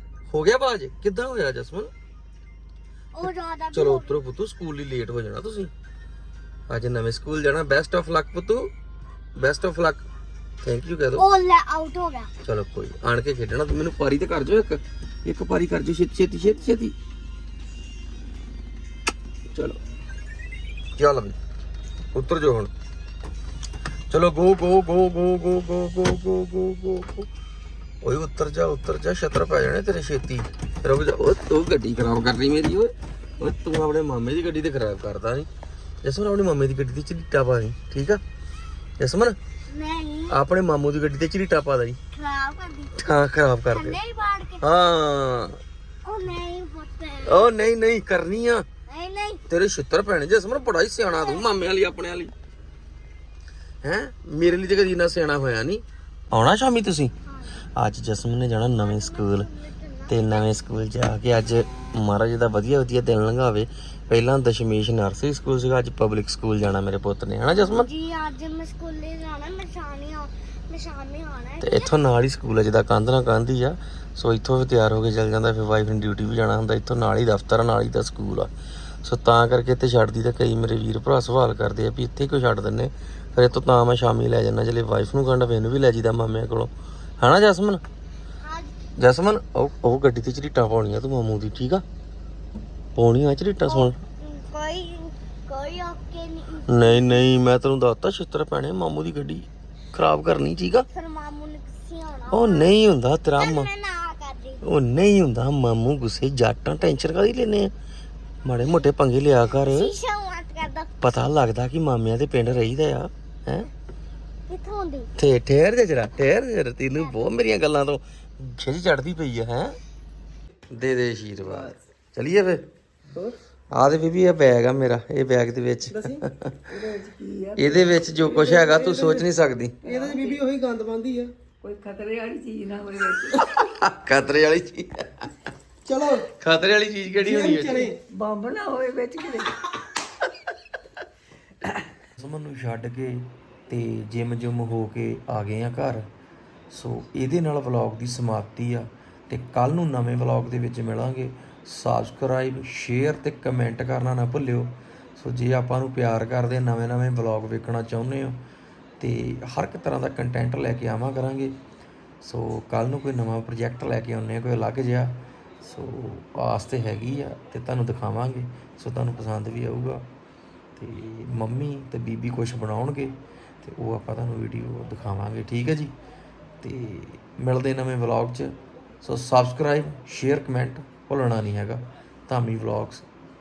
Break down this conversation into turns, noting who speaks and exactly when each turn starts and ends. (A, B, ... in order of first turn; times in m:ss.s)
0:00.3-0:01.9 A
0:03.1-0:04.2 B
0:03.7-0:05.7 A
0:06.7-0:08.7 A
0:09.4-0:10.0 A
0:10.6-0:11.2 A
0:11.2-0:12.3 B
0:12.4-0:16.9 A
0:19.5-0:19.8 A
0:21.0-0:21.4 A
0:22.1-0:22.7 A
0:24.1-0:27.3 A
0:28.0-0:35.5 A
0:36.0-0:38.2 A
0:39.0-0:39.4 A
0:39.7-0:40.4 B
0:40.3-0:42.0 A
0:42.1-0:43.0 B
0:43.0-0:44.0 A
0:43.7-0:44.6 B
0:44.6-0:45.6 A
0:46.0-0:47.5 B
0:47.2-0:48.6 A
0:48.9-0:49.4 B
0:49.5-0:52.3 A
0:51.1-0:51.4 B
0:53.8-0:57.1 A
0:57.3-0:57.5 B
0:57.8-0:59.5 A
0:58.8-1:00.5 B
1:00.1-1:07.9 A
1:07.5-1:11.9 B
1:11.6-1:18.5 A
1:19.0-1:27.8 A
1:28.4-1:28.7 B
1:29.0-1:31.8 A
1:32.9-1:34.0 A
1:33.6-1:37.2 B
1:36.7-1:40.9 A
1:40.9-1:42.7 B
1:42.3-1:43.7 A
1:43.4-1:44.6 B
1:44.6-1:47.7 A
1:48.4-1:49.9 A
1:49.4-1:50.9 B
1:51.0-1:53.7 A
1:54.5-1:55.1 B
1:55.2-1:59.8 A
1:57.0-1:57.2 B
2:00.7-2:02.7 A
2:03.7-2:06.6 A
2:05.9-2:06.2 C
2:06.7-2:08.4 D
2:07.6-2:09.8 A
2:08.2-2:09.3 C
2:09.8-2:11.3 C
2:09.8-2:10.4 D
2:11.6-2:13.5 D
2:13.3-2:15.3 A
2:15.8-2:16.3 C
2:16.4-2:17.9 A
2:17.1-2:18.0 C
2:18.1-2:19.6 D
2:22.2-2:26.1 A
2:26.7-2:38.4 A
2:39.0-2:41.6 A
2:42.2-2:50.1 A
2:50.8-2:55.9 A
2:56.6-3:03.0 A